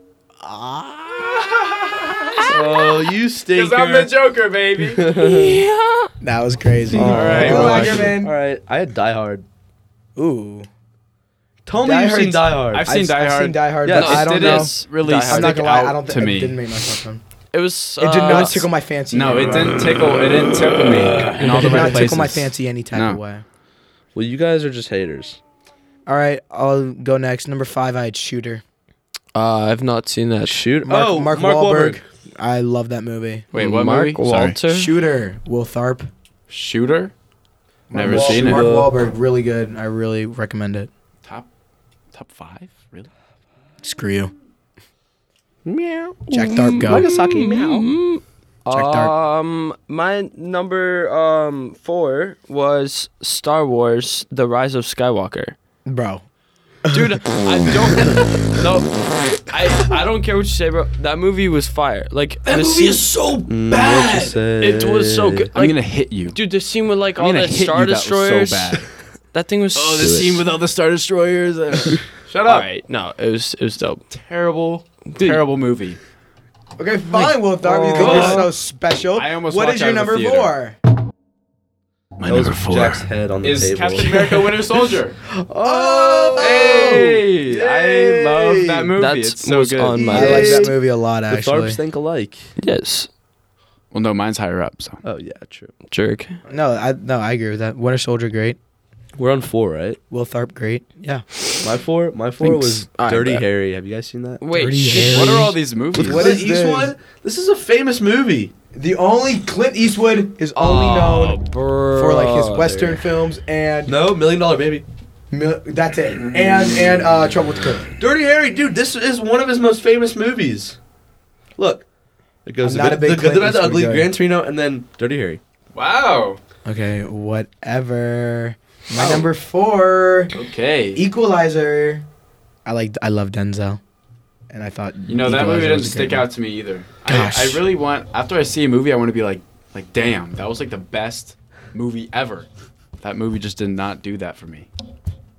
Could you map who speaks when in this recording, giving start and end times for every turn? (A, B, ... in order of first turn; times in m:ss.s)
0:00.4-0:01.8 A
0:01.4-0:02.9 B
0:02.4-0:04.1 C
0:03.5-0:05.2 B
0:04.8-0:05.6 C
0:05.1-0:06.1 D
0:06.2-0:08.3 A
0:06.9-0:09.4 C
0:06.9-0:08.2 B
0:10.2-0:10.7 A
0:11.6-0:12.9 C
0:11.8-0:17.2 A
0:12.7-0:16.6 B
0:13.8-0:14.3 C
0:13.9-0:15.6 D
0:17.5-0:18.7 D
0:18.0-0:19.9 A
0:18.3-0:18.5 B
0:19.1-0:23.2 B
0:20.0-0:22.2 C
0:21.3-0:23.4 A
0:24.1-0:25.4 C
0:26.0-0:28.6 A
0:29.3-0:30.6 D
0:30.4-0:32.0 C
0:30.8-0:33.4 A
0:33.5-0:34.6 B
0:33.5-0:34.9 D
0:34.7-0:36.1 A
0:36.5-0:37.1 B
0:37.9-0:40.9 A
0:37.9-0:38.7 B
0:38.0-0:38.9 C
0:42.1-0:43.1 B
0:43.8-0:44.3 A
0:45.6-0:47.8 C
0:46.3-0:47.4 A
0:46.3-0:55.6 D
0:48.7-0:49.1 A
0:55.8-0:56.2 A
0:56.9-1:10.3 D
1:02.5-1:04.0 B
1:03.5-1:05.5 C
1:05.5-1:06.4 B
1:07.2-1:08.8 B
1:09.8-1:12.7 B
1:10.0-1:10.4 C
1:12.4-1:14.0 D
1:14.1-1:16.0 B
1:15.1-1:15.4 D
1:16.8-1:20.8 A
1:17.6-1:18.5 C
1:17.9-1:18.5 D
1:18.0-1:18.4 B
1:19.1-1:20.5 B
1:22.2-1:25.2 B
1:22.2-1:24.6 C
1:25.3-1:28.9 C
1:25.6-1:27.2 A
1:26.4-1:30.1 B
1:29.0-1:30.7 D
1:29.9-1:32.5 C
1:30.1-1:31.8 A
1:32.6-1:33.1 D
1:33.9-1:35.0 B
1:35.0-1:35.7 C
1:35.9-1:36.4 D
1:36.5-1:38.6 A
1:39.2-1:40.0 C
1:40.1-1:41.3 A
1:41.6-1:44.4 C
1:42.4-1:43.4 D
1:44.4-1:45.4 D
1:44.5-1:46.9 A
1:44.9-1:46.3 B
1:45.9-1:48.5 C
1:48.7-1:54.0 A
1:50.5-1:53.0 D
1:53.8-1:54.8 C
1:55.3-1:57.9 A
1:56.2-1:56.6 B
1:58.0-2:00.8 C
2:01.6-2:01.8 C
2:02.4-2:05.4 C
2:02.6-2:04.1 A
2:05.7-2:06.4 B
2:06.6-2:10.3 A
2:09.0-2:09.2 C
2:10.3-2:11.0 B
2:11.0-2:12.0 A
2:12.6-2:13.8 A
2:14.5-2:16.3 A
2:15.1-2:22.5 B
2:17.0-2:17.6 A
2:23.0-2:24.7 B